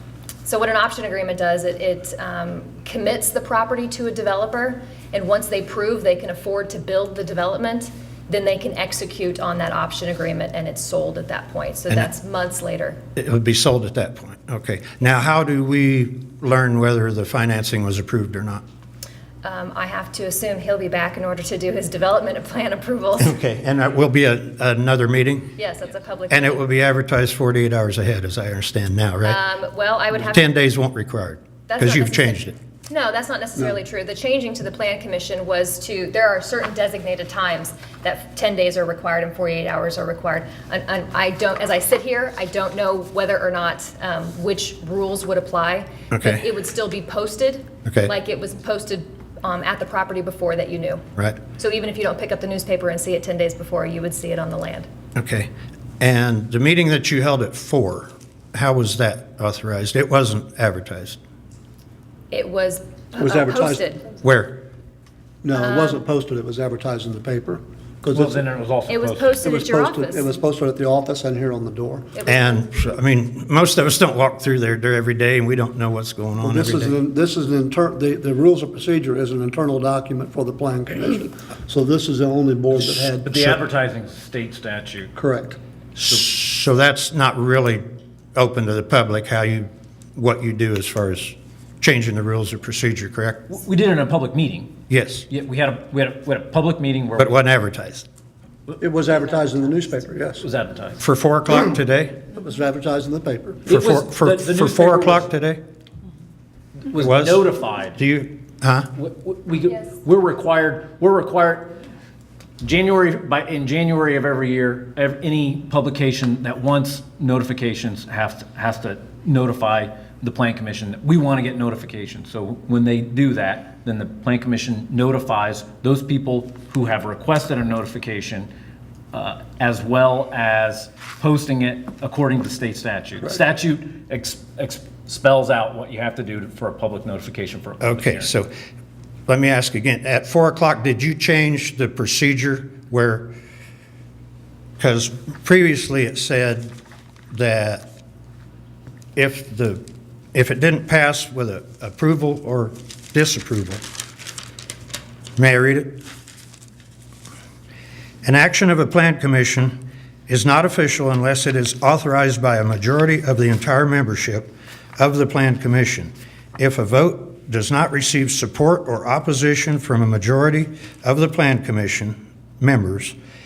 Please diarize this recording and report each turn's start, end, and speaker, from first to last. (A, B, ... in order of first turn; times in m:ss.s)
0:00.4-0:13.0 A
0:13.2-0:18.6 B
0:19.4-0:23.4 A
0:23.2-0:25.5 B
0:25.6-0:26.6 A
0:26.3-0:29.4 B
0:29.2-0:30.4 A
0:30.2-0:32.6 B
0:31.7-0:51.0 A
0:46.1-0:46.4 B
0:47.8-0:48.1 B
0:51.5-0:54.9 A
0:55.1-0:55.5 B
0:56.0-1:01.2 B
1:02.3-1:04.0 A
1:03.2-1:03.9 C
1:04.2-1:04.6 B
1:05.4-1:08.4 C
1:05.5-1:06.0 A
1:08.1-1:09.4 D
1:08.9-1:10.3 A
1:09.4-1:12.1 C
1:12.2-1:12.7 A
1:12.2-1:17.0 B
1:16.4-1:23.6 C
1:22.7-1:25.1 D
1:25.2-1:25.6 C
1:26.0-1:27.8 B
1:28.3-1:33.4 B
1:33.5-1:34.7 D
1:34.9-1:35.3 B
1:35.3-1:37.3 D
1:37.2-1:38.0 B
1:38.7-1:40.4 C
1:40.3-1:41.0 D
1:41.0-1:42.2 B
1:42.3-1:43.6 C
1:43.6-1:45.3 D
1:43.7-1:45.6 B
1:46.8-1:48.0 D
1:47.0-1:48.9 B
1:49.0-1:51.8 D
1:52.6-2:08.5 D
2:09.1-2:18.3 D
2:17.8-2:18.5 B
2:19.3-2:23.3 B
2:24.8-2:26.7 B
2:27.3-2:27.8 B
2:29.2-2:29.8 B
2:30.3-2:33.8 B
2:35.4-2:36.0 B
2:38.2-2:39.8 B
2:40.3-2:53.2 B